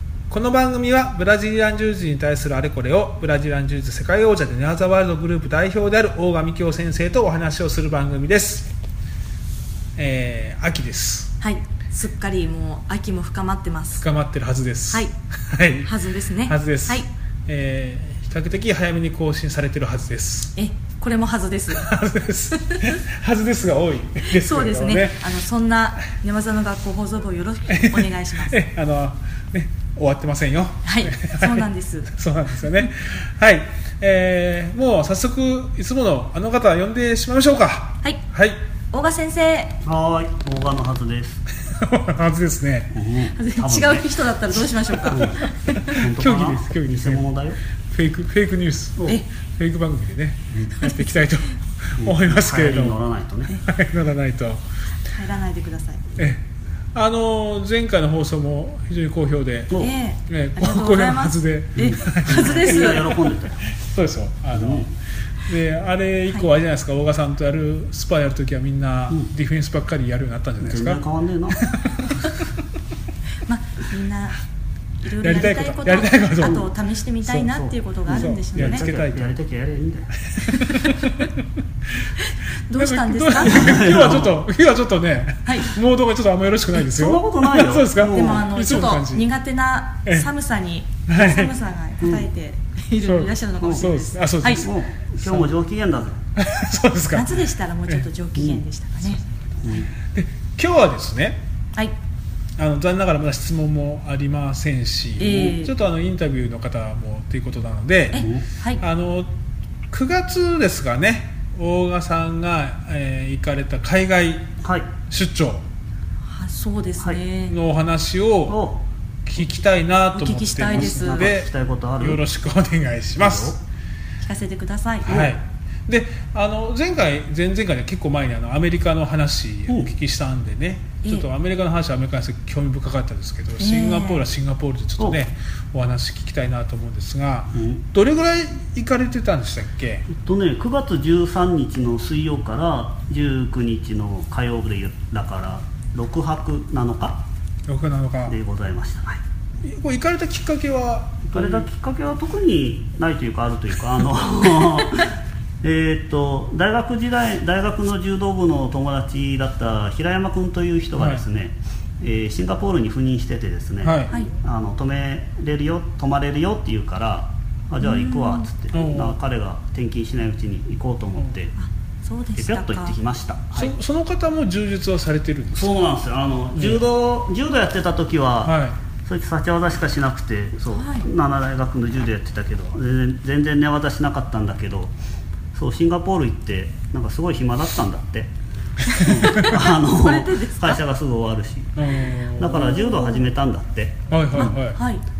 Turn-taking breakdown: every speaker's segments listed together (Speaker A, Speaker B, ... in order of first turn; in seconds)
Speaker A: 0.3-8.7, 10.0-11.3, 14.0-20.5, 21.7-25.2, 27.7-38.6, 41.7-42.9, 45.9-47.3, 47.9-53.0, 53.6-54.6, 56.2-63.1, 63.7-64.9, 65.4-72.5, 75.2-76.6, 78.1-79.3, 80.3-81.4, 82.8-89.3, 91.1-91.5, 93.0-95.5, 96.3-98.1, 100.1-101.4, 102.6-109.3, 109.9-114.5, 115.1-115.6, 117.5-118.6, 119.2-123.5, 125.0-140.1, 147.7-148.4, 149.6-151.6, 161.0-161.2, 163.8-164.2, 168.7-169.2, 173.6-175.7, 176.6-176.8, 178.4-178.8, 189.2-189.5, 191.8-192.7, 194.1-194.8
Speaker B: 11.4-14.0, 15.8-17.1, 20.6-21.9, 24.2-28.6, 30.9-32.1, 38.9-39.7, 43.3-46.1, 55.1-56.0, 59.8-63.1, 73.5-74.4, 75.0-78.9, 80.5-81.0, 82.7-84.2, 85.4-85.7, 88.0-94.7, 97.1-99.2, 105.2-105.7, 108.1-108.8, 116.3-117.6, 120.1-121.3, 124.2-125.3, 133.6-134.2, 167.8-168.4, 171.6-172.9, 180.7-181.1, 188.9-190.8, 192.5-193.3, 194.3-195.0
Speaker C: 39.8-41.4, 42.9-47.6, 50.5-50.8, 52.0-53.5, 61.8-63.6, 64.5-64.9, 70.6-71.6, 76.4-76.7, 77.2-80.1, 83.4-84.4, 86.8-88.8, 92.0-92.3, 93.6-93.9, 94.5-96.2, 98.3-98.6, 99.6-99.9, 108.2-108.5, 114.6-114.9, 118.5-118.8, 120.7-122.2, 123.2-123.6, 125.0-125.3, 137.5-137.8, 140.1-147.2, 148.3-149.2, 151.3-171.5, 172.4-173.8, 175.5-184.9, 185.5-188.3, 189.0-191.8, 192.3-194.6